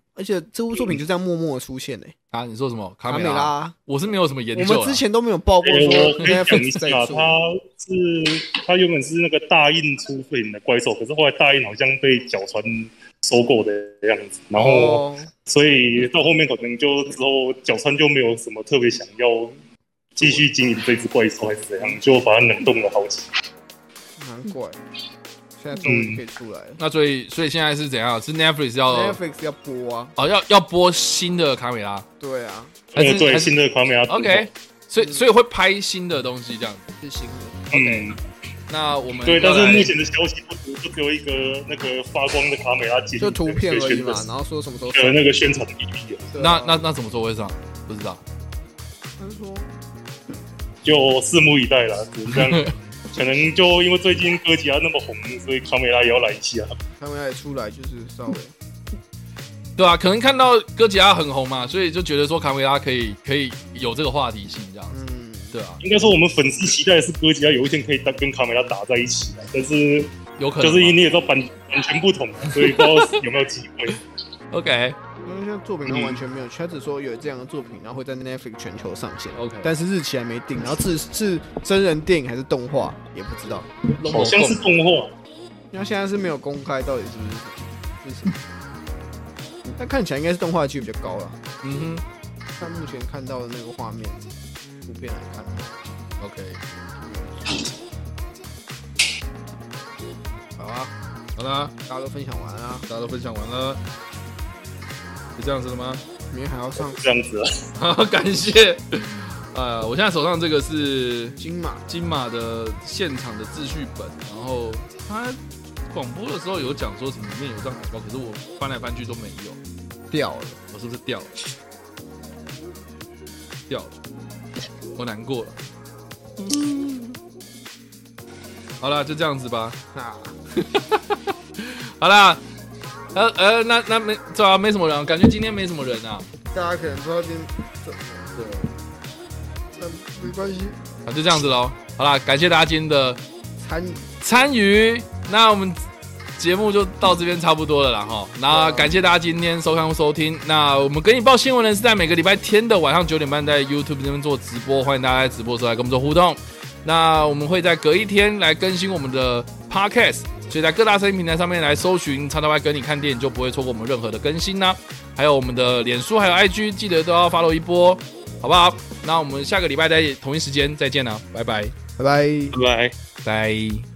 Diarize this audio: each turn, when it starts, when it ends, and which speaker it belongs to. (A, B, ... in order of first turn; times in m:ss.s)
0:00.1-0:02.1 A
0:02.3-0:05.0 B
0:03.1-0:03.8 A
0:04.5-0:07.4 A
0:05.6-0:19.6 C
0:14.6-0:15.3 A
0:20.2-0:23.3 C
0:20.2-0:20.4 A
0:24.2-0:24.8 A
0:25.6-0:26.8 A
0:25.8-0:26.2 C
0:26.8-0:29.2 B
0:28.9-0:30.1 A
0:30.2-0:32.0 B
0:32.2-0:32.8 A
0:33.0-0:33.6 B
0:33.0-0:34.5 C
0:34.1-0:36.8 B
0:35.0-0:35.2 A
0:37.0-0:37.7 A
0:37.7-0:38.2 B
0:37.7-0:38.2 C
0:38.7-0:39.9 B
0:39.2-0:44.2 C
0:43.2-0:45.3 A
0:44.9-0:46.3 C
0:46.3-0:46.8 A
0:46.4-0:48.2 B
0:49.2-0:49.7 A
0:50.8-0:56.8 C
0:52.3-0:52.7 B
0:57.0-0:58.5 A
0:59.8-1:04.9 B
1:04.9-1:05.6 A
1:05.5-1:05.8 B
1:05.8-1:14.0 C
1:10.4-1:11.0 B
1:12.5-1:13.2 B
1:14.5-1:15.0 B
1:15.2-1:23.7 A
1:15.9-1:16.1 B
1:19.3-1:19.7 B
1:24.0-1:24.6 B
1:24.0-1:25.1 C
1:25.7-1:28.4 A
1:29.8-1:31.4 A
1:31.6-1:32.0 B
1:32.6-1:34.2 A
1:34.8-1:35.7 A
1:36.2-1:36.6 B
1:37.0-1:37.4 A
1:40.6-1:40.9 A
1:41.4-1:41.7 B
1:41.8-1:42.8 A
1:42.9-1:43.8 B
1:45.4-1:46.0 B
1:46.3-1:47.0 A
1:46.8-1:47.6 C
1:47.8-1:55.4 B
1:51.4-1:51.9 A
1:55.9-1:59.6 B
2:00.1-2:00.6 A
2:00.7-2:01.3 B
2:03.7-2:04.0 B
2:04.9-2:05.6 B
2:06.5-2:07.0 B
2:08.8-2:09.8 B
2:09.9-2:10.3 A
2:10.5-2:12.4 B
2:13.1-2:16.3 B
2:16.4-2:18.4 A
2:18.4-2:18.7 B
2:19.8-2:20.8 A
2:21.0-2:23.2 B
2:23.6-2:24.1 A
2:24.2-2:25.8 B
2:26.4-2:51.7 B
2:28.5-2:28.9 A
2:52.0-2:52.6 A
2:52.5-2:52.9 C
2:53.2-2:53.8 B